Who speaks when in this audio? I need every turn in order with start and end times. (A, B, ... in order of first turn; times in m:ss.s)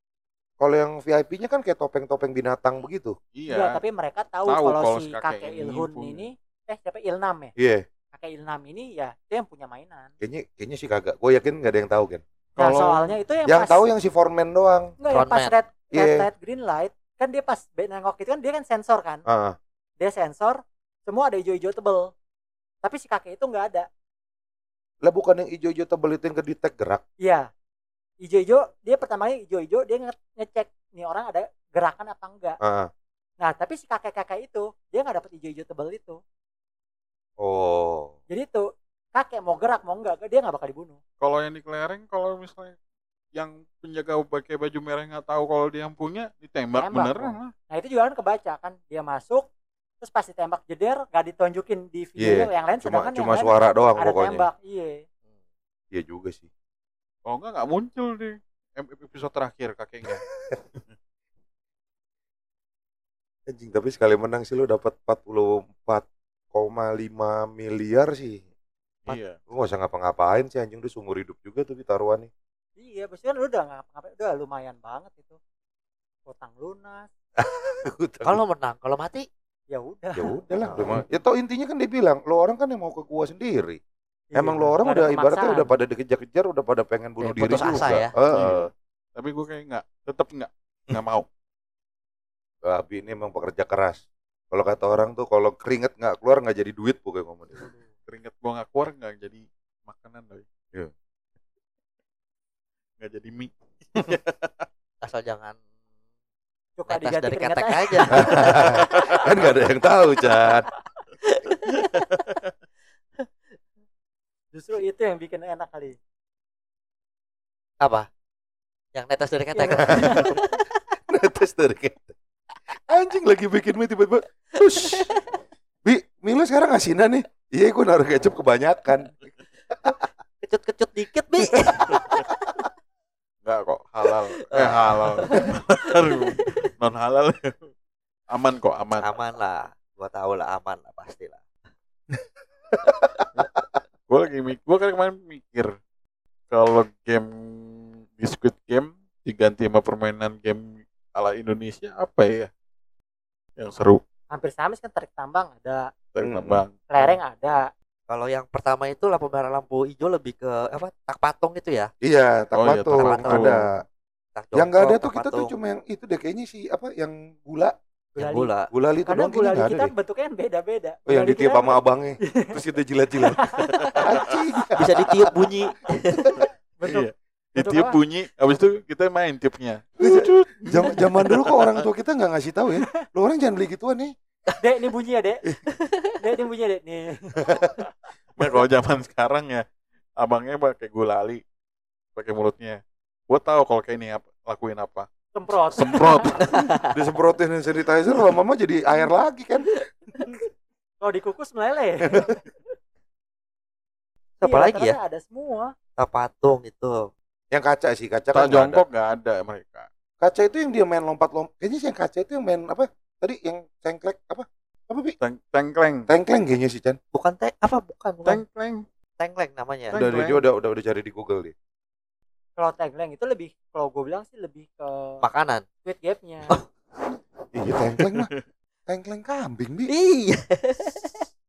0:00.6-0:03.2 A
0:03.3-0:03.8 B
0:03.5-0:07.5 C
0:04.5-0:06.2 B
0:07.6-0:07.8 A
0:08.1-0:10.1 C
0:10.2-0:12.2 A
0:12.6-0:13.2 B
0:12.6-0:13.8 C
0:13.5-0:14.9 A
0:15.0-0:19.2 C
0:15.1-0:15.5 D
0:15.9-0:16.3 A
0:19.3-0:19.6 A
0:20.0-0:22.1 C
0:22.8-0:23.9 C
0:25.0-0:27.0 A
0:27.2-0:27.5 C
0:28.2-0:32.6 C
0:32.6-0:32.9 A
0:33.4-0:36.2 C
0:37.4-0:38.1 A
0:38.3-0:41.0 C
0:41.2-0:42.8 B
0:43.3-0:47.5 B
0:46.8-0:49.5 C
0:50.0-0:55.0 C
0:52.2-0:54.5 A
0:55.9-0:56.5 A
0:57.3-1:00.2 B
1:00.1-1:00.6 A
1:03.5-1:08.4 A
1:09.1-1:09.4 B
1:09.5-1:12.3 A
1:12.8-1:15.4 C
1:16.3-1:17.1 C
1:17.4-1:18.4 A
1:18.2-1:19.3 D
1:19.7-1:20.3 C
1:20.2-1:23.8 A
1:24.3-1:25.7 C
1:24.4-1:28.7 A
1:27.2-1:28.1 D
1:28.3-1:31.3 B
1:32.6-1:37.6 A
1:38.1-1:40.4 B
1:43.0-1:44.7 B
1:45.0-1:45.6 D
1:46.8-1:48.6 C
1:46.9-1:48.9 D
1:48.2-1:50.7 A
1:51.2-1:52.2 D
1:54.5-1:56.0 C
1:57.8-1:58.1 D
1:59.0-2:00.6 D
1:59.6-2:00.4 C
1:59.8-2:00.4 A
2:01.1-2:02.2 A
2:02.9-2:05.2 A
2:04.7-2:05.2 D
2:05.8-2:09.1 A
2:09.7-2:10.0 A
2:10.4-2:12.7 D
2:11.7-2:12.2 A
2:13.4-2:17.7 B
2:14.5-2:16.7 D
2:18.3-2:19.1 B
2:19.0-2:21.4 D
2:22.7-2:23.0 A
2:22.9-2:23.2 D
2:24.1-2:25.7 B
2:26.5-2:32.5 B
2:33.6-2:34.0 B
2:34.3-2:35.9 C
2:36.1-2:37.1 B
2:36.2-2:36.6 A
2:36.9-2:37.6 C
2:38.1-2:41.9 D
2:42.0-2:43.7 A
2:42.6-2:43.5 B
2:42.9-2:43.6 D
2:44.4-2:45.6 D
2:44.5-2:47.7 A
2:48.2-2:48.5 C
2:48.2-2:48.7 D
2:48.7-2:49.9 A
2:49.1-2:52.5 C
2:51.1-2:53.4 A
2:53.3-2:53.7 C
2:54.0-2:55.5 A
2:54.8-2:56.4 D
2:56.2-2:56.5 A
2:56.8-2:58.0 C
2:56.8-3:01.8 B
3:00.0-3:04.1 A
3:04.6-3:05.4 C
3:05.6-3:06.2 D
3:06.2-3:07.7 C
3:08.4-3:09.6 B
3:10.2-3:11.4 B
3:12.2-3:15.1 B
3:15.4-3:16.3 C
3:15.8-3:16.5 B
3:16.4-3:16.9 D
3:16.9-3:19.8 A
3:19.7-3:20.4 D
3:21.0-3:22.4 C
3:22.1-3:22.4 A
3:24.4-3:25.0 D
3:24.4-3:25.7 C
3:26.0-3:27.1 D
3:27.5-3:28.8 A
3:28.3-3:29.9 B
3:30.2-3:35.2 A
3:35.2-3:36.1 B
3:36.1-3:37.0 A
3:37.1-3:38.4 D
3:38.2-3:38.8 B
3:39.2-3:40.0 D
3:39.9-3:40.4 B
3:39.9-3:41.5 A
3:42.6-3:45.2 C
3:45.2-3:45.6 D
3:45.8-3:46.5 C
3:47.5-3:48.3 A
3:48.1-3:48.4 B
3:48.9-3:49.9 A
3:49.9-3:51.3 D